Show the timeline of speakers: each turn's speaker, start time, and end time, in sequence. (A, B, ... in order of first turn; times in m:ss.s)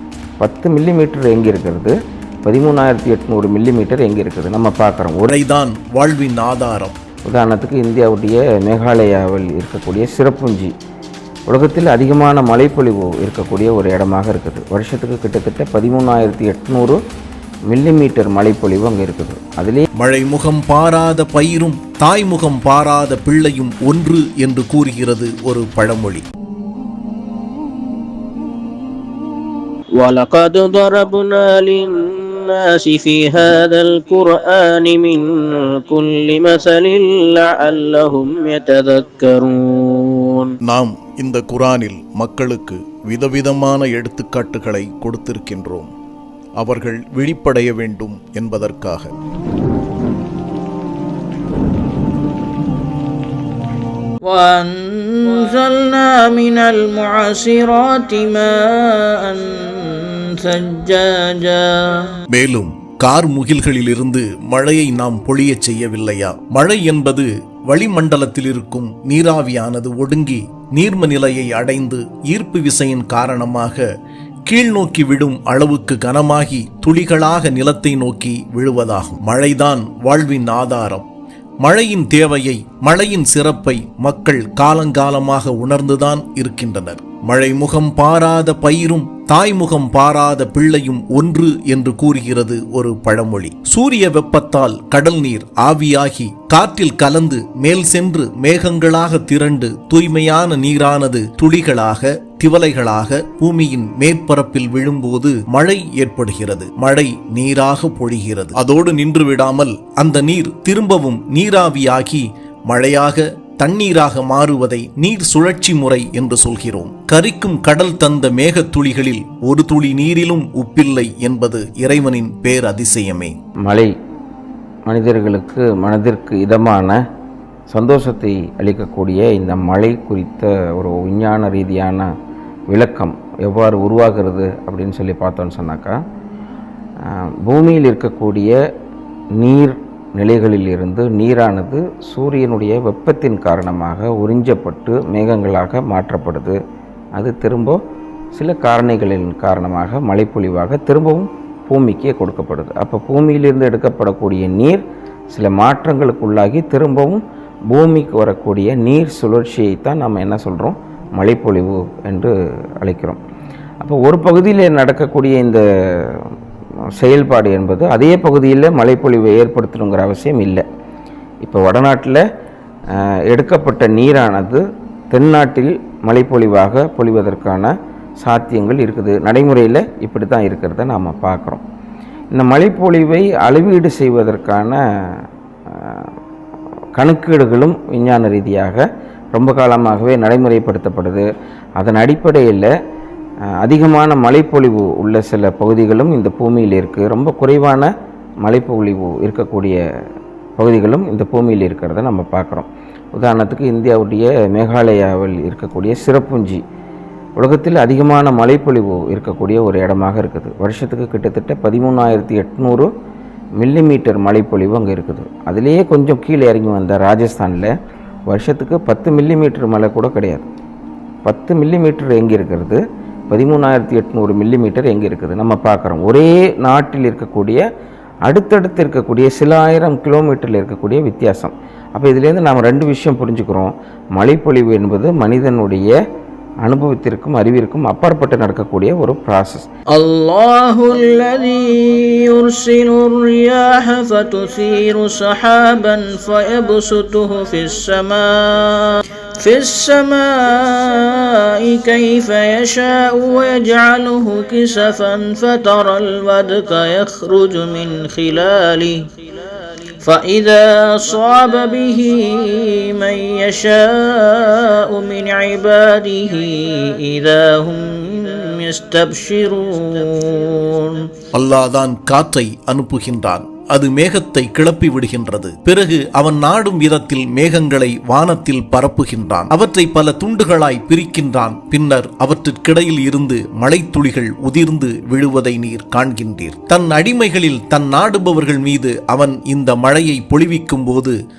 0:00.4-0:01.9 A
0:02.4-0:05.3 A
0:05.3-0:07.0 B
0:07.3-0:10.7 A
0:11.5-0:17.0 A
0:17.7-0:19.9 A
0:20.0-0:26.2 B
0:30.0-0:40.5 C
0:40.7-0:45.9 B
0:46.6-0:49.1 B
0:54.3-1:02.2 C
1:02.3-1:13.8 B
1:14.5-1:21.1 B
1:21.6-2:03.3 B
2:03.7-2:04.0 A
2:04.9-2:07.0 A
2:07.7-2:12.1 A
2:12.7-2:16.0 A
2:17.1-2:18.5 A
2:19.4-2:26.6 A
2:27.2-2:27.8 A
2:28.3-2:37.2 A
2:37.7-2:43.2 A
2:43.8-2:46.3 A
2:47.0-2:50.6 A
2:51.4-2:52.2 A
2:53.0-3:01.6 A
3:02.3-3:06.1 A
3:07.0-3:11.2 A
3:11.8-3:12.7 A
3:13.6-3:17.9 A
3:18.4-3:19.8 A
3:20.6-3:26.6 A
3:27.4-3:32.9 A
3:33.6-3:37.7 A
3:38.3-3:40.5 A
3:41.2-3:47.6 A
3:48.3-3:55.9 A
3:56.6-3:59.7 A
3:59.9-4:19.1 C
4:20.0-4:31.1 C
4:31.3-4:51.1 B